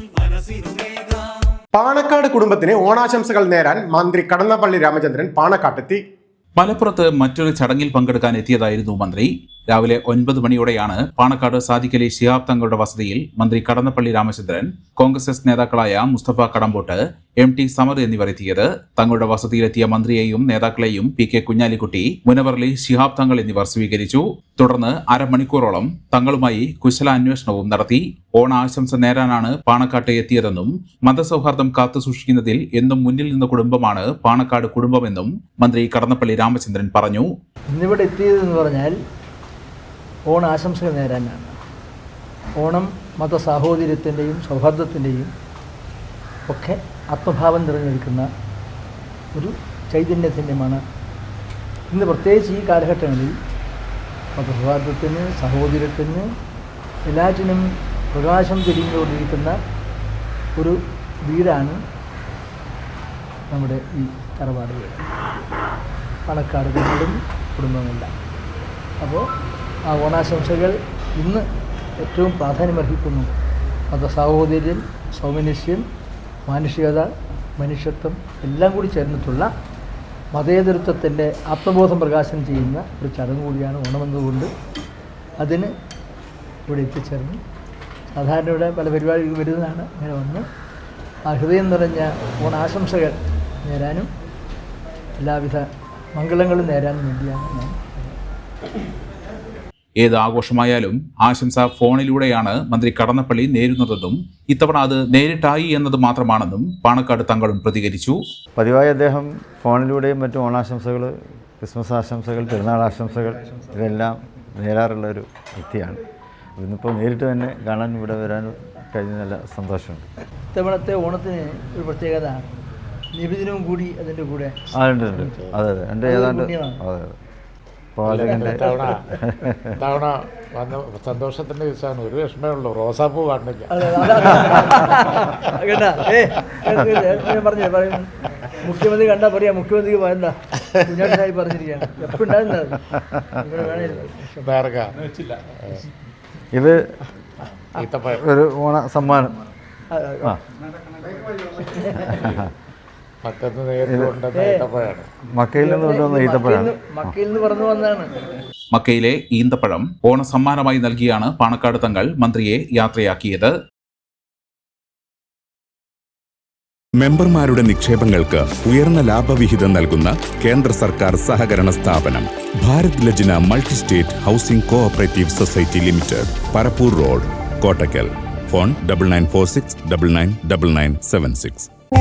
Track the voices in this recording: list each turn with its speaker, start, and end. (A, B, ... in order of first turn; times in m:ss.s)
0:01.7-0:06.0 A
0:06.6-0:37.3 B
0:37.7-0:39.0 C
0:40.3-0:41.5 C
0:42.6-0:45.3 C
0:46.5-0:48.3 C
0:49.3-0:50.8 C
0:51.9-0:53.4 C
0:54.3-0:56.3 C
0:57.0-0:59.6 C
1:00.6-1:01.8 C
1:03.5-1:05.1 C
1:06.2-1:08.1 C
1:09.0-1:09.3 C
1:09.8-1:11.4 C
1:12.0-1:13.3 C
1:13.9-1:15.8 C
1:16.5-1:19.5 C
1:20.3-1:24.5 C
1:25.4-1:25.7 C
1:26.7-1:27.4 C
1:28.1-1:30.4 C
1:31.3-1:34.1 C
1:35.2-1:38.1 C
1:40.0-1:48.2 B
1:48.6-1:56.0 D
1:56.6-2:00.1 D
2:00.5-2:02.4 C
2:03.1-2:04.6 C
2:04.7-2:07.1 D
2:05.1-2:05.6 E
2:06.0-2:06.8 C
2:08.0-2:09.8 D
2:08.0-2:09.0 E
2:08.3-2:09.0 C
2:09.8-2:14.0 E
2:13.7-2:24.5 C
2:24.4-2:25.8 E
2:26.5-2:27.0 D
2:27.7-2:28.2 E
2:28.1-2:29.4 D
2:29.9-2:30.3 C
2:31.5-2:32.3 C
2:33.2-2:35.1 E
2:33.9-2:34.2 D
2:34.3-2:34.7 C
2:35.3-2:37.1 D
2:35.6-2:38.1 C
2:38.7-2:43.5 B
2:47.0-3:01.7 F